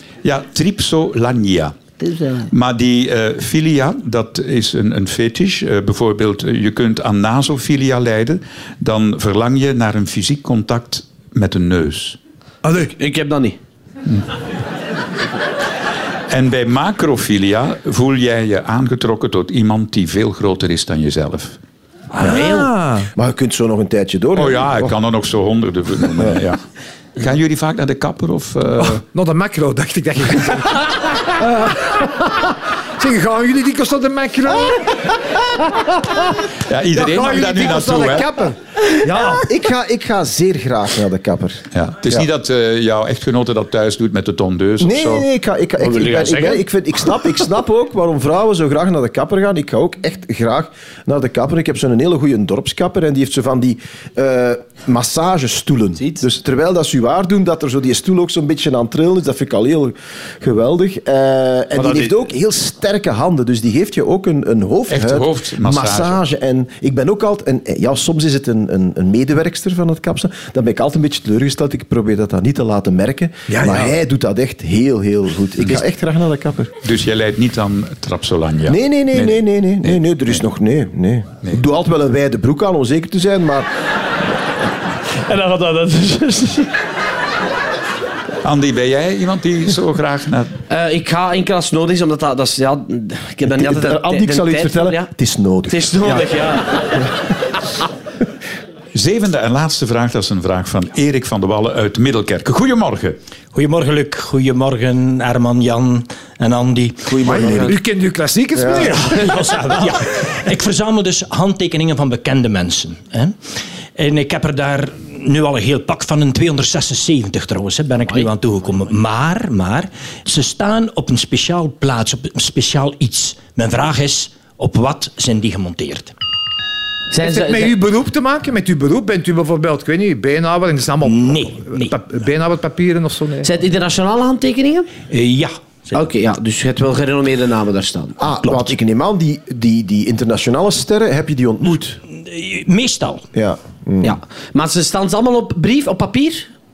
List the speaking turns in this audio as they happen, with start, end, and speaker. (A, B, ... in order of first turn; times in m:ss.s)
0:00.2-0:01.8 A
0:02.0-0:02.5 B
0:02.5-0:12.2 A
0:12.6-0:12.9 C
0:12.8-0:13.6 B
0:16.3-0:21.6 A
0:22.1-0:23.1 C
0:22.2-0:22.7 B
0:23.2-0:25.0 D
0:24.4-0:26.6 A
0:27.2-0:29.0 A
0:28.8-0:35.0 C
0:35.7-0:36.2 C
0:36.6-0:38.3 A
0:36.9-0:39.5 C
0:39.3-0:42.2 D
0:41.7-0:45.2 A
0:44.8-1:16.7 D
0:45.8-0:46.7 B
1:01.7-1:02.2 B
1:04.9-1:06.2 A
1:13.5-1:13.9 C
1:16.8-1:20.4 A
1:18.7-1:23.7 D
1:25.1-1:26.7 B
1:28.4-1:30.5 A
1:30.7-1:35.1 B
1:33.5-1:36.6 D
1:35.7-1:37.0 B
1:38.9-1:43.2 A
1:43.5-1:47.6 E
1:47.1-1:47.8 D
1:47.2-1:47.8 B
1:47.6-1:49.4 C
1:48.6-1:49.0 D
1:48.6-1:53.4 E
1:54.0-2:06.1 E
2:07.1-2:07.7 B
2:07.2-2:13.5 C
2:11.0-2:12.0 E
2:13.4-2:14.9 B
2:15.1-2:16.1 E
2:15.9-2:18.2 B
2:18.2-2:22.0 D
2:18.4-2:18.7 E
2:22.1-2:23.3 E
2:23.3-2:24.2 D
2:24.0-2:26.5 B